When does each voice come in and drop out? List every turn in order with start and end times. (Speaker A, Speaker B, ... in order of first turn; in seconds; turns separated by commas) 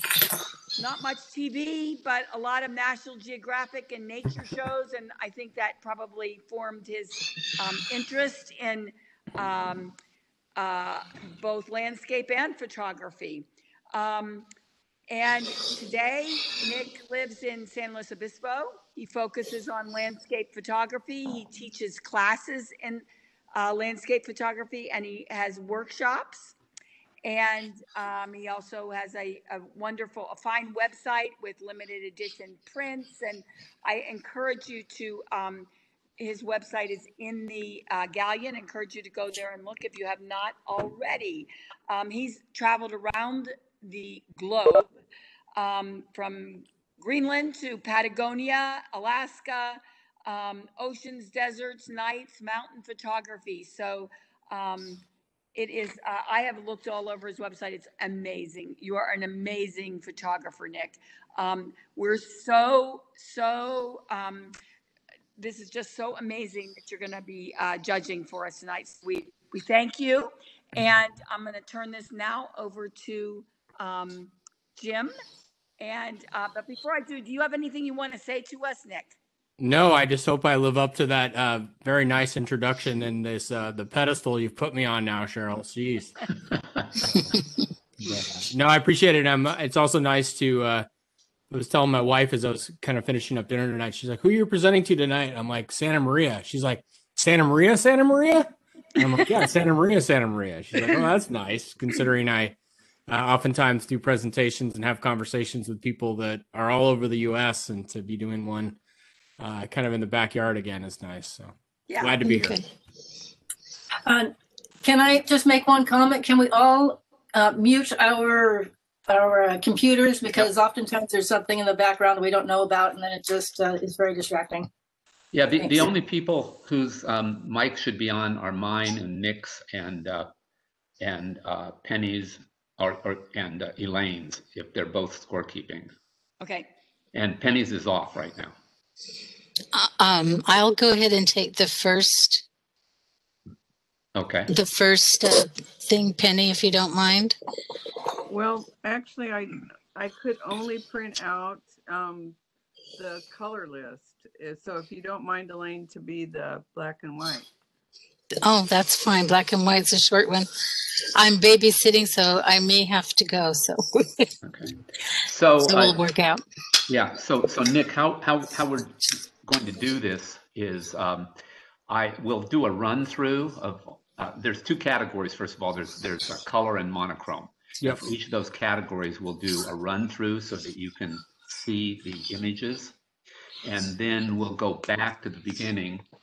Speaker A: 0.8-9.9, Speaker A: 10.6-14.4, Speaker A: 15.1-26.5, Speaker A: 27.2-44.9, Speaker A: 45.5-55.0, Speaker A: 55.5-64.5, Speaker A: 65.4-75.1, Speaker A: 75.8-79.2, Speaker B: 79.6-86.2, Speaker B: 88.0-90.9, Speaker B: 91.5-102.5, Speaker B: 103.1-108.8, Speaker B: 109.4-112.6, Speaker A: 111.9-112.1, Speaker C: 112.2-112.7, Speaker D: 114.0-124.7, Speaker E: 125.3-130.3, Speaker D: 125.6-125.9, Speaker E: 131.0-135.9, Speaker A: 136.4-136.7, Speaker E: 137.1-138.6, Speaker C: 139.7-142.4, Speaker E: 144.2-144.5, Speaker C: 144.5-147.3, Speaker F: 148.3-152.4, Speaker F: 153.0-157.5, Speaker C: 158.4-160.5, Speaker C: 161.1-164.3, Speaker E: 164.4-166.0, Speaker C: 165.6-166.4, Speaker E: 166.9-171.3, Speaker E: 171.9-182.9, Speaker E: 183.6-186.0